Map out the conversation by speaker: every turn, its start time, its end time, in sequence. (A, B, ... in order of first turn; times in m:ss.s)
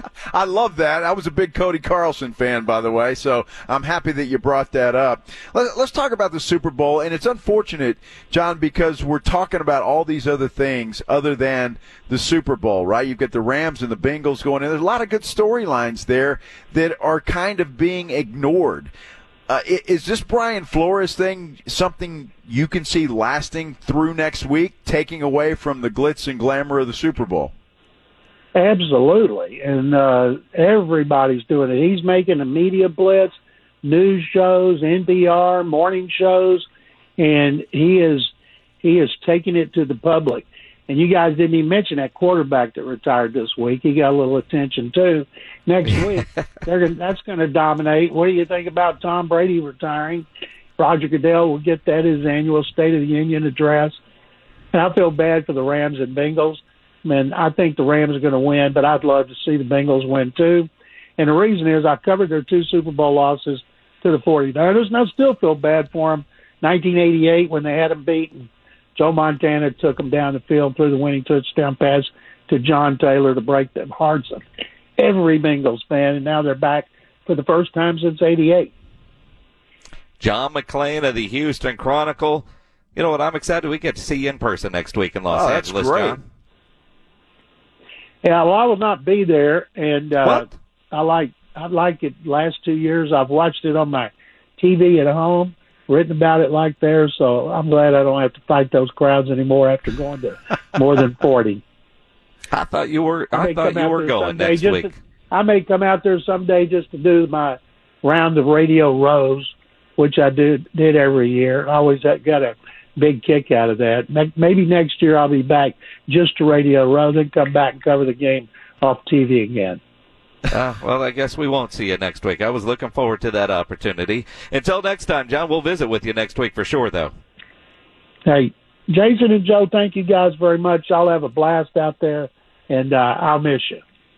0:00.3-0:18.9 A
0:19.5-0:27.5 A
0:28.6-0:36.7 B
0:37.2-0:50.3 B
0:50.8-0:54.0 B
0:54.7-1:14.4 B
1:15.0-1:18.7 B
1:20.2-1:26.2 C
1:25.3-1:26.2 A
1:28.2-1:41.6 B
1:42.5-1:44.9 C
1:43.3-1:59.8 B
2:00.5-2:07.1 C
2:08.3-2:13.8 B